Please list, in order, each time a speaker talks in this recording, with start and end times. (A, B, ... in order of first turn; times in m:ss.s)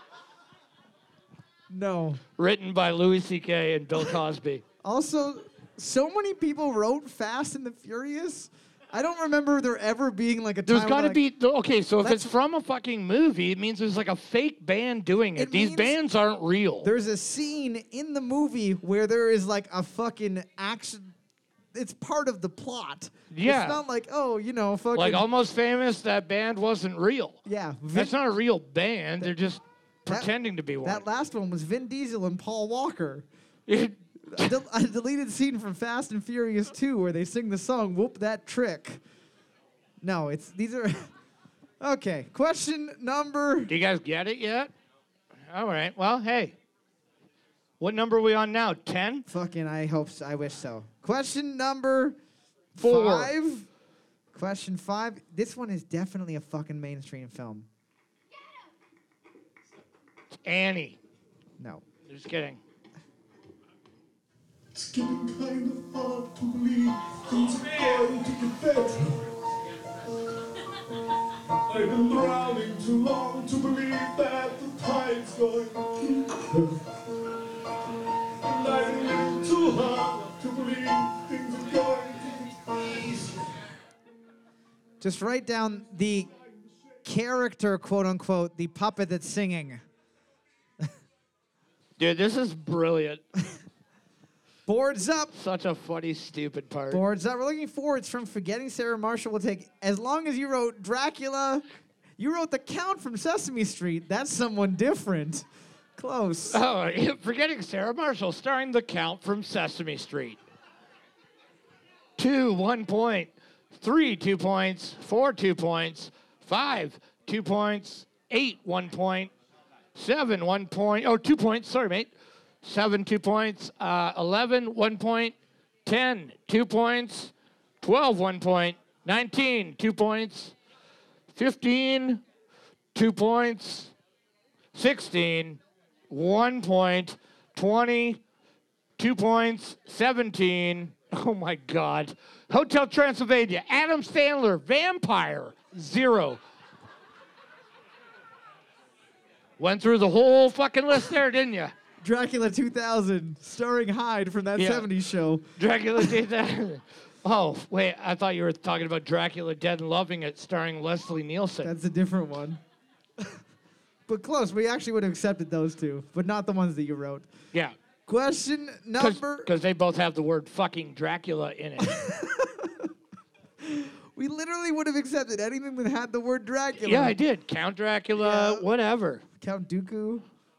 0:01.7-0:02.2 A
0:02.4-0:04.6 B
0:04.8-0:11.2 A
0:10.7-0:16.9 B
0:12.0-0:12.4 A
0:15.4-0:16.0 A
0:16.8-0:21.2 A
0:21.7-0:25.3 A
0:23.3-0:23.8 B
0:25.0-0:27.4 B
0:27.4-0:28.2 A
0:27.9-0:31.0 B
0:30.1-0:33.3 A
0:33.7-0:34.5 B
0:34.3-0:39.0 A
0:40.0-0:41.1 A
0:41.8-0:43.7 A
0:43.7-0:44.7 B
0:45.5-0:46.6 B
0:47.8-0:49.3 B
0:49.3-0:52.2 A
0:52.8-0:53.7 A
0:52.8-0:53.3 B
0:54.3-0:57.7 A
1:00.4-1:01.0 B
1:01.6-1:01.8 A
1:02.1-1:02.6 B
1:04.7-1:09.2 C
1:11.7-1:16.8 C
1:18.4-1:23.5 C
1:25.0-1:26.3 A
1:27.0-1:29.8 A
1:32.0-1:33.2 B
1:34.7-1:35.3 A
1:35.3-1:37.0 B
1:36.9-1:41.6 A
1:42.2-1:46.6 A
1:46.5-1:50.4 B
1:52.2-1:59.3 B
2:00.0-2:05.3 B
2:05.8-2:10.6 B
2:11.3-2:12.2 B
2:12.9-2:13.9 B
2:14.7-2:18.2 B
2:19.0-2:26.4 B
2:29.6-2:31.8 B
2:32.0-2:36.2 A
2:34.6-2:34.9 B
2:35.6-2:41.7 B
2:41.6-2:42.6 A
2:44.1-2:47.3 A
2:48.1-2:49.5 A
2:49.0-2:52.0 B
2:51.8-2:52.9 A
2:53.6-2:57.2 A
2:56.8-2:59.2 B
2:58.2-2:58.7 A
2:59.4-3:00.2 A